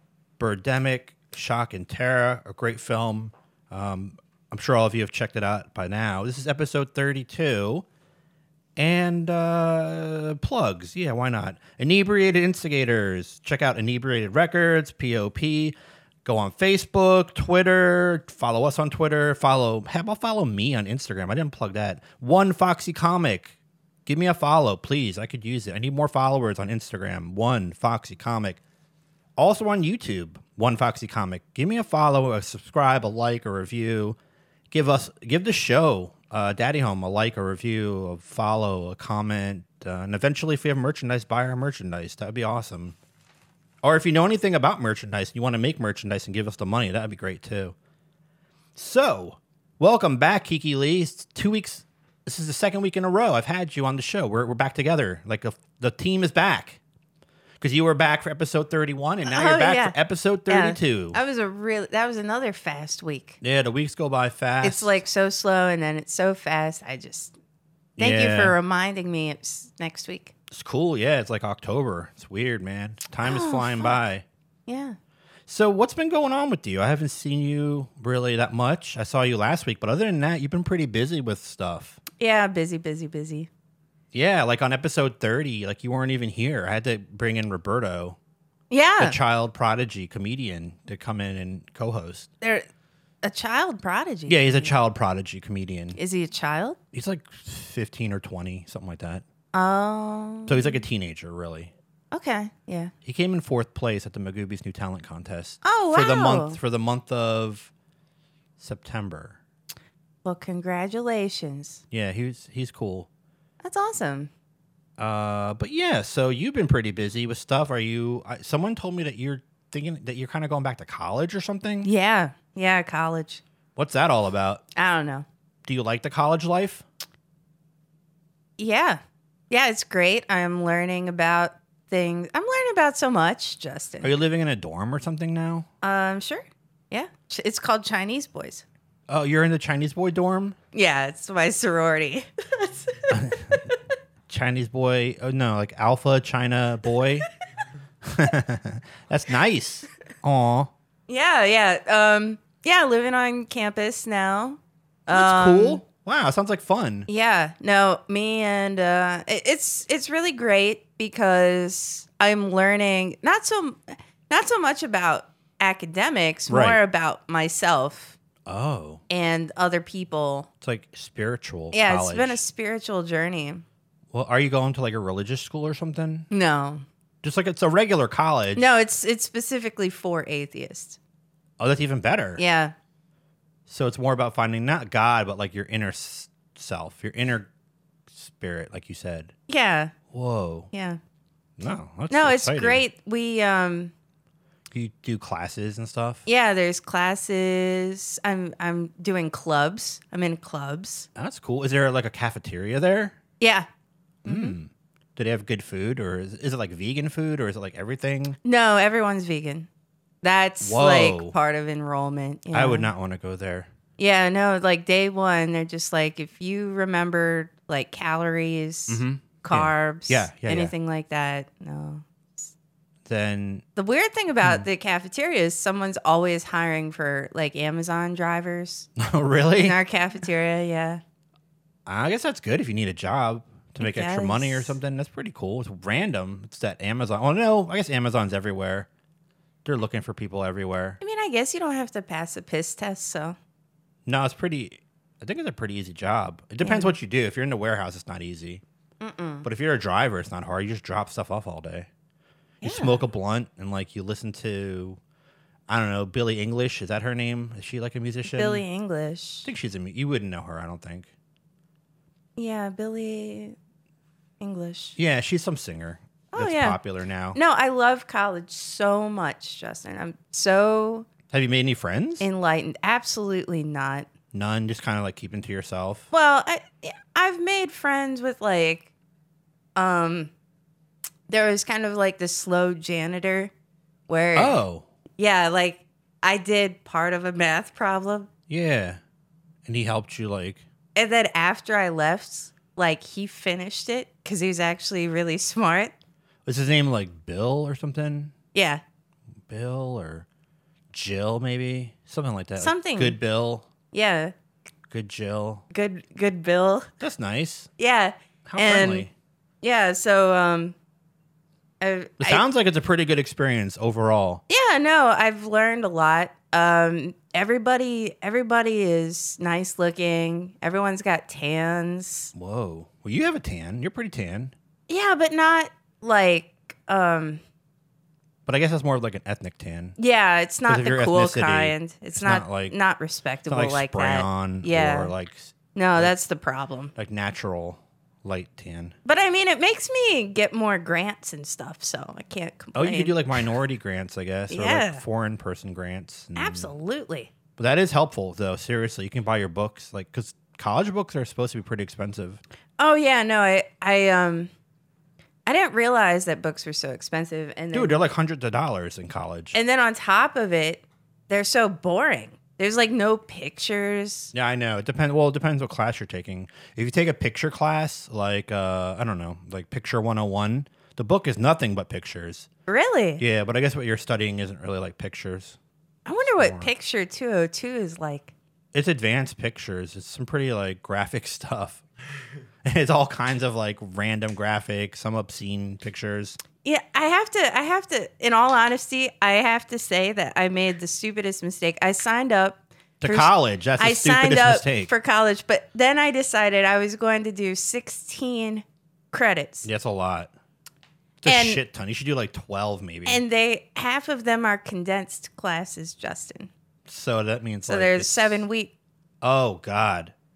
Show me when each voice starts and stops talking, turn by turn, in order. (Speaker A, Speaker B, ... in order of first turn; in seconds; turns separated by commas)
Speaker A: 0.4-7.8, Speaker A: 8.8-28.6, Speaker A: 29.4-34.2, Speaker A: 34.7-43.0, Speaker A: 43.8-47.7, Speaker A: 48.8-56.8, Speaker A: 57.6-61.2, Speaker B: 59.2-60.0, Speaker B: 60.5-63.4, Speaker A: 63.4-65.0, Speaker B: 64.6-67.3, Speaker A: 68.0-68.5, Speaker B: 68.0-70.3, Speaker A: 70.5-74.2, Speaker B: 73.2-74.0, Speaker B: 74.7-75.0, Speaker A: 75.5-82.0, Speaker B: 82.2-83.5, Speaker A: 84.1-88.2, Speaker B: 88.7-89.2, Speaker A: 89.0-92.3, Speaker B: 92.4-92.7, Speaker B: 93.2-94.7, Speaker A: 94.3-96.0, Speaker B: 96.0-96.8, Speaker A: 96.9-99.2, Speaker B: 99.5-100.8, Speaker A: 100.5-101.7, Speaker B: 102.1-102.9, Speaker A: 103.0-107.7, Speaker B: 105.6-106.6, Speaker A: 108.6-109.4, Speaker B: 110.2-111.8, Speaker A: 111.9-113.1, Speaker B: 113.6-114.3, Speaker A: 115.0-121.9, Speaker B: 121.8-123.4, Speaker A: 123.8-124.6, Speaker B: 124.8-125.2, Speaker A: 125.7-126.8, Speaker B: 128.6-134.1, Speaker A: 134.0-135.7, Speaker B: 135.8-138.6, Speaker A: 139.1-140.6, Speaker B: 140.7-143.6, Speaker A: 143.1-143.6, Speaker A: 144.3-147.3, Speaker A: 148.0-150.7, Speaker B: 151.1-155.8, Speaker A: 155.1-157.1, Speaker B: 157.1-168.2, Speaker A: 166.5-166.8, Speaker A: 168.4-169.0, Speaker B: 169.1-170.5, Speaker A: 170.6-172.4, Speaker B: 171.7-173.6, Speaker A: 174.1-176.3, Speaker B: 176.3-176.8, Speaker A: 177.2-178.7, Speaker B: 178.6-181.0, Speaker A: 181.6-182.4, Speaker B: 182.4-182.7, Speaker A: 183.7-187.5, Speaker A: 188.1-189.3, Speaker B: 189.5-189.9, Speaker A: 190.1-190.7, Speaker B: 190.7-191.0, Speaker A: 191.6-192.8, Speaker B: 192.1-193.9, Speaker A: 194.7-196.2, Speaker B: 196.2-201.1, Speaker A: 201.1-203.2, Speaker B: 203.4-203.7, Speaker B: 204.2-204.6, Speaker A: 204.2-208.4, Speaker B: 208.4-209.7, Speaker B: 210.2-212.9, Speaker A: 210.6-211.3, Speaker A: 212.5-213.7, Speaker B: 214.0-222.5, Speaker A: 218.9-220.7, Speaker A: 223.1-223.6, Speaker B: 223.8-228.9, Speaker A: 229.0-229.8, Speaker B: 229.6-231.0, Speaker A: 231.8-238.9, Speaker B: 233.8-234.8, Speaker A: 239.6-241.0, Speaker B: 241.0-243.3, Speaker A: 244.1-248.6, Speaker B: 246.6-246.9, Speaker B: 249.0-249.4, Speaker A: 249.4-251.9, Speaker A: 252.6-255.0, Speaker B: 252.6-253.0, Speaker A: 255.7-258.6, Speaker B: 258.2-259.5, Speaker A: 259.4-261.1, Speaker B: 262.4-263.6, Speaker B: 264.4-264.9, Speaker A: 265.0-267.4, Speaker B: 266.3-266.8, Speaker B: 267.3-271.1, Speaker A: 271.3-272.3, Speaker B: 272.2-274.1, Speaker A: 274.3-276.1, Speaker B: 276.1-278.9, Speaker B: 279.8-280.3, Speaker B: 281.3-283.5, Speaker B: 284.1-284.6, Speaker A: 284.3-284.9, Speaker B: 285.2-288.3, Speaker A: 288.5-289.0, Speaker A: 289.6-290.6, Speaker B: 290.9-295.9, Speaker A: 296.4-298.3, Speaker B: 298.5-298.8, Speaker A: 299.5-300.2, Speaker A: 300.9-303.7, Speaker B: 302.6-303.2, Speaker B: 303.9-304.3, Speaker A: 304.9-305.6, Speaker B: 305.7-306.9, Speaker A: 307.0-307.7, Speaker B: 307.8-309.1, Speaker A: 308.5-309.1, Speaker B: 309.6-310.7, Speaker B: 311.8-312.4, Speaker A: 312.2-314.4, Speaker B: 314.5-322.3, Speaker A: 322.3-324.5, Speaker B: 324.9-327.4, Speaker A: 328.4-330.0, Speaker B: 330.0-335.1, Speaker A: 330.7-332.7, Speaker A: 333.5-336.1, Speaker B: 335.7-336.9, Speaker A: 336.9-338.9, Speaker B: 339.0-343.5, Speaker A: 342.7-346.7, Speaker B: 344.5-345.0, Speaker B: 346.4-347.3, Speaker A: 347.6-352.4, Speaker B: 352.8-354.5, Speaker B: 355.4-358.0, Speaker A: 357.7-359.6, Speaker B: 359.5-364.3, Speaker A: 364.3-372.5, Speaker B: 372.7-373.2, Speaker A: 373.2-375.6, Speaker B: 376.1-378.3, Speaker A: 376.4-376.7, Speaker A: 378.7-381.8, Speaker A: 382.6-386.4, Speaker B: 386.6-399.7, Speaker A: 393.0-394.9, Speaker A: 399.6-400.3, Speaker A: 401.2-403.2, Speaker B: 401.2-401.6, Speaker B: 403.1-406.5, Speaker A: 406.9-408.4, Speaker B: 407.7-408.7, Speaker A: 409.2-410.1